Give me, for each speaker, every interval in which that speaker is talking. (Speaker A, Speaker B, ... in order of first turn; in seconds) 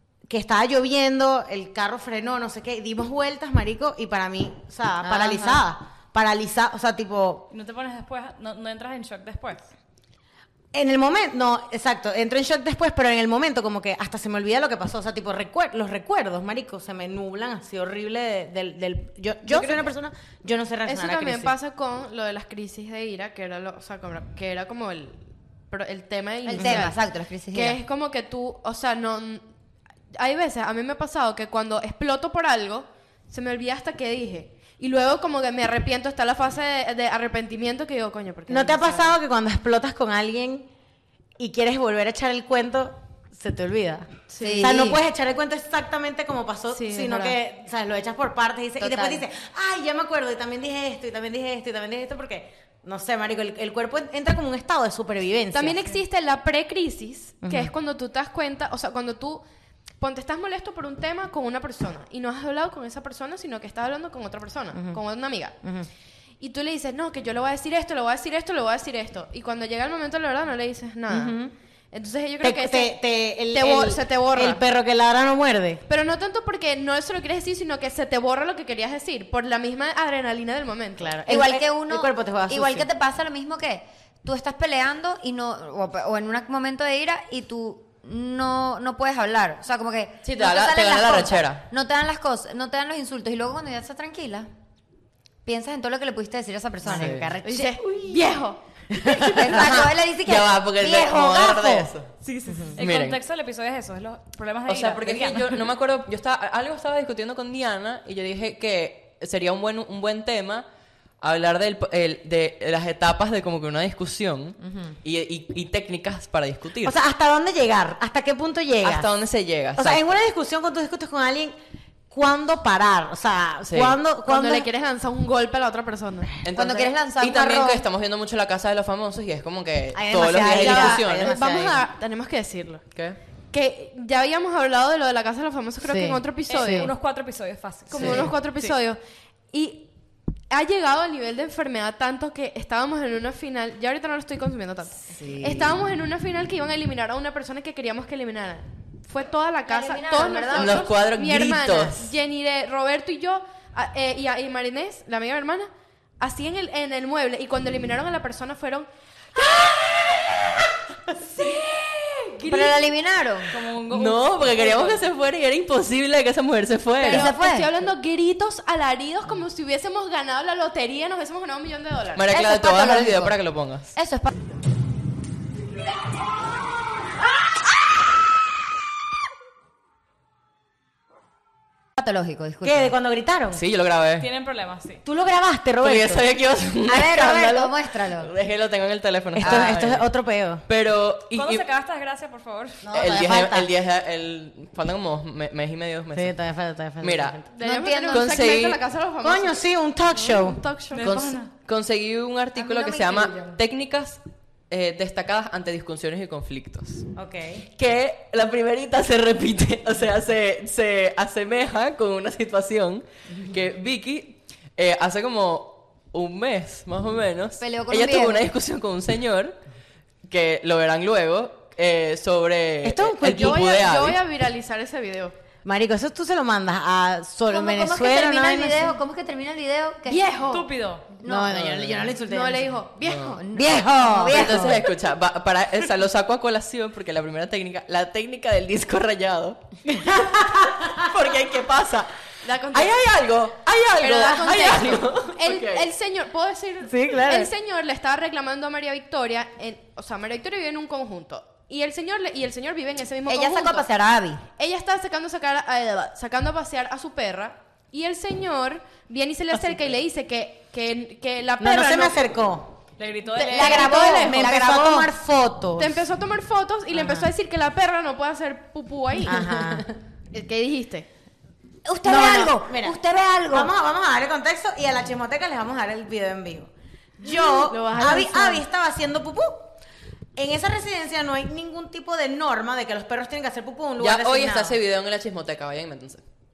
Speaker A: 0.3-7.5, 10.7-21.5, 26.6-26.9, 38.5-40.7, 41.4-55.9, 57.4-57.7, 64.7-65.0, 65.6-65.9, 71.1-71.5, 72.4-75.8, 81.0-82.9, 98.9-99.8, 101.4-101.8, 116.8-119.1, 119.8-121.5, 122.1-124.7, 129.9-131.8, 135.8-136.2, 182.6-183.6, 185.0-186.3, 189.3-190.6, 192.8-193.7, 196.1-197.4, 199.2-200.6, 207.2-207.7, 222.8-223.6, 225.6-229.0, 231.2-232.8, 233.5-234.8, 239.9-241.0, 246.8-247.5, 261.6-262.8, 263.6-266.0, 266.9-267.3, 269.2-269.9, 272.0-279.7, 280.4-284.8
Speaker B: 5.0-5.6, 26.5-27.8, 44.4-45.0, 48.8-49.2, 81.3-94.5, 95.4-98.1, 99.2-101.8, 114.6-115.0, 126.5-127.8, 149.7-150.9, 162.4-163.5, 167.0-167.7, 172.3-173.3, 173.9-174.3, 182.0-182.9, 186.9-188.3, 189.4-189.8, 197.6-198.4, 202.6-203.6, 217.6-218.5, 227.5-230.3, 231.2-231.6, 233.4-234.9, 253.2-254.4, 263.5-265.1, 271.9-273.7
Speaker C: 7.5-9.7, 102.2-105.5, 136.5-138.4, 163.5-165.0, 184.2-185.0, 191.3-192.8, 200.9-201.5, 230.5-231.1, 263.0-264.0
Speaker D: 20.9-27.0, 27.5-29.4, 30.1-39.1, 44.3-44.7, 46.7-47.4, 55.5-59.4, 60.0-65.5, 66.4-71.4, 71.9-72.9, 73.5-74.6, 75.9-81.2, 97.4-98.6, 124.2-126.4, 130.5-132.8, 133.5-136.9, 137.9-139.0, 139.5-139.9, 140.5-158.9, 161.3-162.8, 167.0-172.3, 197.5-201.2, 223.2-225.3, 230.1-230.7, 232.2-233.4, 242.4-243.0, 244.0-253.9, 254.6-262.2, 263.3-264.7, 265.8-269.7, 270.3-271.1, 277.2-278.6
Speaker E: 90.2-91.6, 96.8-97.3, 99.4-102.1, 102.8-103.2, 104.7-110.7, 111.2-117.0, 118.8-120.1, 123.7-124.0, 126.4-131.5, 132.9-133.2, 138.0-138.3, 145.2-145.5, 150.5-152.1, 163.9-167.3, 172.2-173.9, 183.5-184.3, 185.8-190.1, 190.7-191.6, 192.9-196.3, 197.0-197.4, 198.1-198.8, 201.0-207.1, 207.8-219.6, 220.3-224.2, 231.5-232.1, 233.0-233.4, 234.3-242.1, 242.7-245.9, 284.0-286.2